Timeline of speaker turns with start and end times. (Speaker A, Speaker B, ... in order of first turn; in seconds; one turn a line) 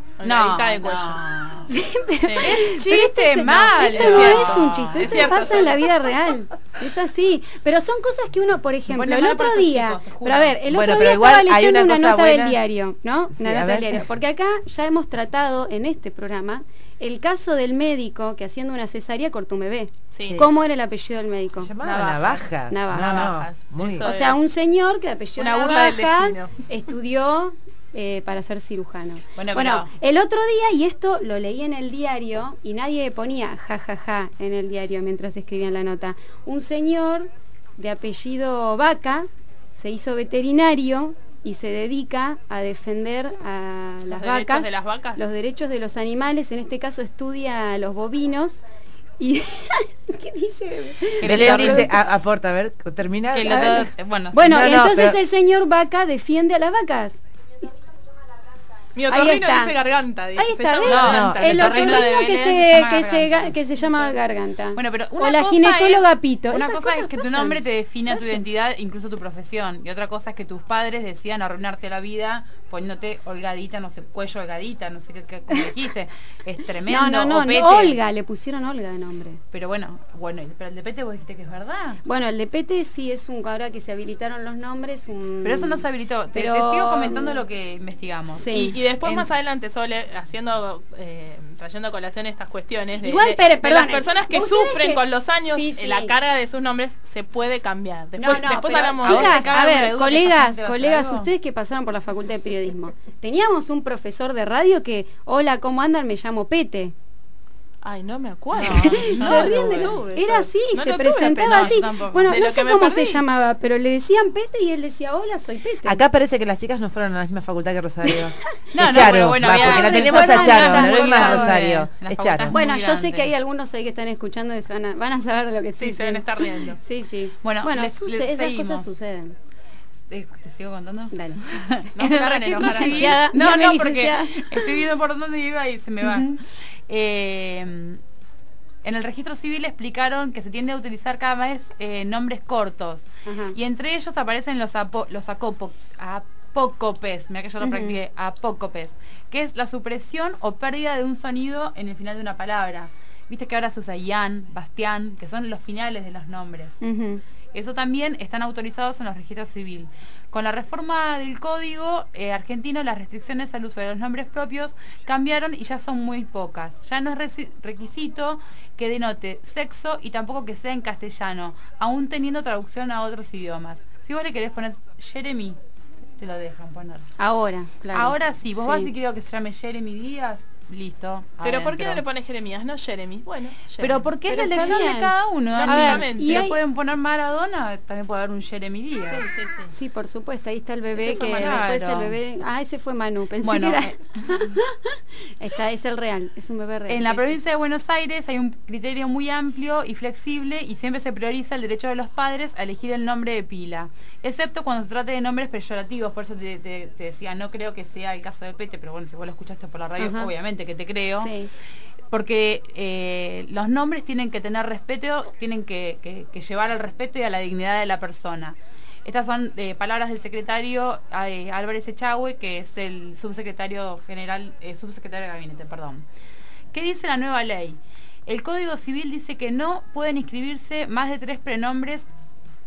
Speaker A: 0.2-1.2
Speaker B: 0.2-1.7
Speaker C: 1.7-21.7
Speaker A: 2.2-2.5
Speaker B: 2.4-5.5
Speaker A: 3.9-5.9
Speaker B: 8.9-10.6
Speaker D: 10.7-12.6
Speaker D: 13.3-14.0
Speaker A: 20.1-20.5
Speaker D: 21.6-24.1
Speaker A: 21.8-24.4
Speaker C: 22.7-23.3
Speaker C: 24.0-48.6
Speaker A: 25.4-26.5
Speaker B: 29.4-29.9
Speaker A: 44.1-45.2
Speaker C: 49.2-51.9
Speaker B: 51.2-51.9
Speaker D: 51.2-53.7
Speaker B: 53.3-54.6
Speaker C: 53.4-57.7
Speaker D: 54.4-55.2
Speaker A: 58.9-62.2
Speaker C: 59.1-59.7
Speaker C: 60.4-68.4
Speaker B: 60.8-63.6
Speaker D: 61.0-61.6
Speaker B: 64.7-78.0
Speaker C: 76.9-79.4
Speaker B: 79.5-82.0
Speaker C: 82.0-87.4
Speaker B: 85.4-88.5
Speaker C: 88.3-88.8
Speaker A: 88.5-99.5
Speaker B: 89.0-89.3
Speaker C: 93.0-96.1
Speaker C: 98.2-106.9
Speaker B: 98.2-101.3
Speaker A: 107.8-113.2
Speaker B: 108.5-109.9
Speaker C: 108.5-116.0
Speaker B: 111.4-112.4
Speaker D: 115.8-122.5
Speaker B: 118.7-123.3
Speaker C: 119.4-121.6
Speaker C: 122.5-129.3
Speaker A: 125.8-126.8
Speaker B: 127.4-128.9
Speaker B: 130.1-138.0
Speaker C: 131.1-131.4
Speaker A: 131.9-133.2
Speaker C: 132.6-134.8
Speaker C: 136.0-136.3
Speaker B: 138.8-156.8
Speaker C: 143.2-143.6
Speaker C: 147.6-148.0
Speaker C: 156.8-157.2
Speaker B: 157.5-175.6
Speaker B: 176.2-177.1
Speaker C: 177.2-178.9
Speaker B: 177.9-182.0
Speaker A: 181.4-184.7
Speaker B: 183.8-189.2
Speaker C: 184.3-186.6
Speaker A: 185.5-186.4
Speaker A: 189.1-189.7
Speaker C: 189.7-197.4
Speaker B: 191.0-192.1
Speaker A: 191.3-191.6
Speaker B: 193.4-194.5
Speaker B: 196.9-211.3
Speaker C: 210.0-210.3
Speaker C: 211.2-211.5
Speaker B: 212.1-226.0
Speaker B: 226.7-232.1